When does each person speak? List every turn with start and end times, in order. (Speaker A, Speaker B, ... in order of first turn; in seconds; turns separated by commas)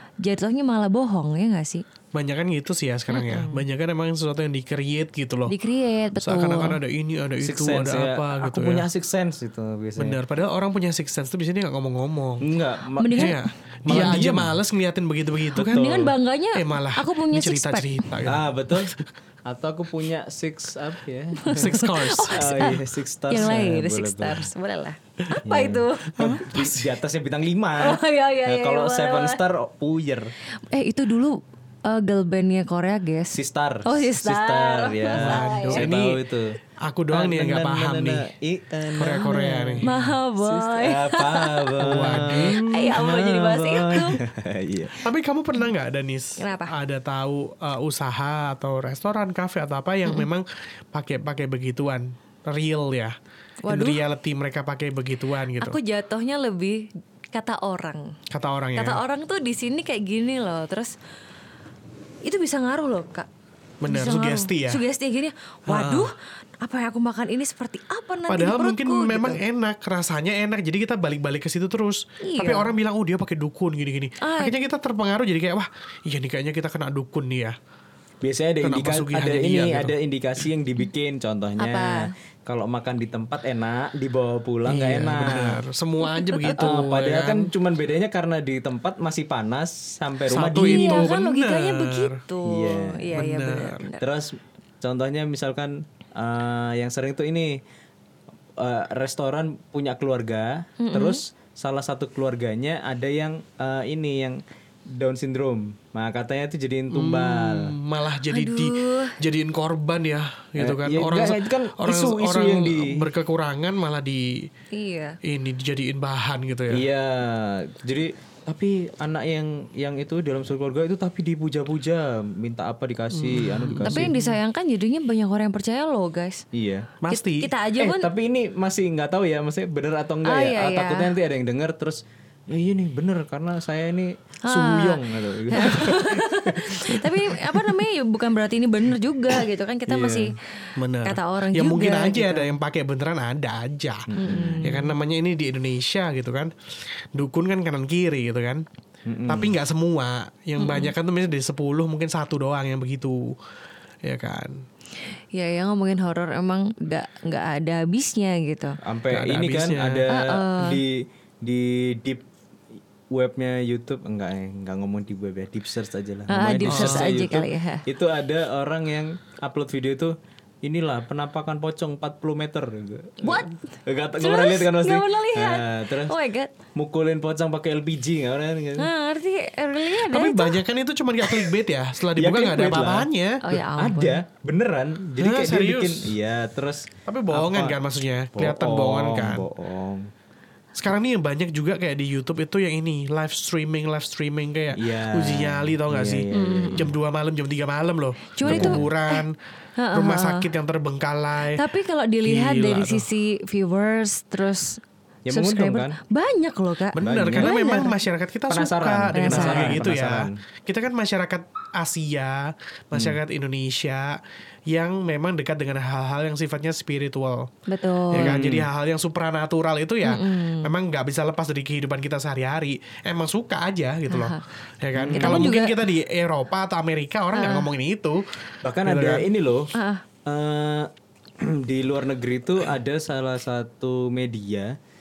Speaker A: 0.2-1.9, Speaker B: 2.1-5.5, Speaker A: 3.1-3.6, Speaker A: 5.5-6.8, Speaker B: 6.2-8.9, Speaker C: 7.4-10.2, Speaker B: 10.0-12.5, Speaker C: 12.4-14.6, Speaker A: 13.0-13.4, Speaker B: 13.1-15.9, Speaker A: 15.6-18.1, Speaker C: 15.7-16.1, Speaker B: 16.6-19.1, Speaker C: 18.2-18.9, Speaker C: 19.5-21.7, Speaker A: 21.4-26.4, Speaker B: 21.5-22.6, Speaker C: 22.3-24.5, Speaker C: 25.4-30.3, Speaker B: 26.2-26.9, Speaker A: 27.8-29.4, Speaker A: 30.7-35.9, Speaker C: 33.3-36.6, Speaker B: 35.1-36.2, Speaker B: 36.8-38.3, Speaker C: 37.1-45.0, Speaker B: 39.0-39.9, Speaker A: 39.8-44.2, Speaker B: 41.8-42.9, Speaker B: 45.0-53.1, Speaker A: 46.4-46.7, Speaker A: 53.6-54.0, Speaker B: 53.7-55.8, Speaker A: 55.6-58.1, Speaker B: 58.3-59.0, Speaker A: 58.8-60.9, Speaker A: 62.2-63.3, Speaker B: 63.8-64.8, Speaker A: 63.9-69.4, Speaker B: 65.7-66.1, Speaker B: 68.3-77.6, Speaker A: 72.2-72.7, Speaker A: 74.2-74.5, Speaker C: 78.2-85.6, Speaker B: 78.6-80.0, Speaker A: 81.6-82.1, Speaker B: 84.7-87.5, Speaker A: 86.2-86.5, Speaker C: 86.5-91.1, Speaker B: 90.3-92.2, Speaker A: 90.6-94.0, Speaker C: 92.5-93.1, Speaker B: 93.2-93.9, Speaker C: 94.0-97.6, Speaker C: 98.6-104.4, Speaker A: 100.8-101.2, Speaker C: 104.9-107.7, Speaker B: 106.9-114.5, Speaker A: 108.3-109.2, Speaker C: 110.6-113.0, Speaker A: 114.7-115.2, Speaker B: 115.2-116.9, Speaker C: 116.7-124.1, Speaker B: 123.2-124.3, Speaker A: 123.8-126.4, Speaker C: 126.5-126.9, Speaker B: 127.0-127.5, Speaker A: 127.1-128.1, Speaker C: 127.8-136.9, Speaker A: 130.3-131.1, Speaker A: 134.5-140.3, Speaker C: 139.9-140.3, Speaker B: 140.8-146.5, Speaker A: 141.0-142.6, Speaker C: 144.1-144.6, Speaker A: 144.2-144.9, Speaker B: 147.1-148.7, Speaker C: 149.1-149.6, Speaker B: 149.3-153.3, Speaker A: 150.6-150.9, Speaker B: 154.0-154.6, Speaker A: 155.3-158.8, Speaker C: 158.8-162.2, Speaker B: 159.1-160.1, Speaker A: 160.1-160.8, Speaker C: 163.1-176.1, Speaker A: 166.3-167.8, Speaker B: 166.7-167.1, Speaker A: 173.2-173.6, Speaker A: 174.2-176.5, Speaker C: 176.8-178.9, Speaker A: 178.8-180.6, Speaker B: 180.0-183.4, Speaker C: 182.2-187.8, Speaker A: 183.4-184.2, Speaker B: 185.2-186.1, Speaker B: 187.1-189.5, Speaker C: 188.4-190.1, Speaker B: 190.8-199.4, Speaker C: 194.8-196.9, Speaker A: 196.3-196.9, Speaker A: 198.4-199.2, Speaker C: 198.4-198.9, Speaker A: 199.8-200.5, Speaker B: 199.9-201.6, Speaker A: 201.5-207.9, Speaker B: 202.2-203.1, Speaker C: 205.3-206.0, Speaker B: 206.9-217.5, Speaker C: 207.0-207.6, Speaker C: 208.5-210.4, Speaker A: 209.1-209.8, Speaker A: 217.7-218.4, Speaker B: 218.1-229.3, Speaker C: 218.2-218.7, Speaker A: 220.0-220.7, Speaker A: 224.1-224.4, Speaker C: 225.0-225.5, Speaker A: 225.1-225.8, Speaker A: 227.3-227.7, Speaker C: 228.6-229.7, Speaker A: 229.7-230.0, Speaker C: 230.3-230.9, Speaker C: 231.4-234.8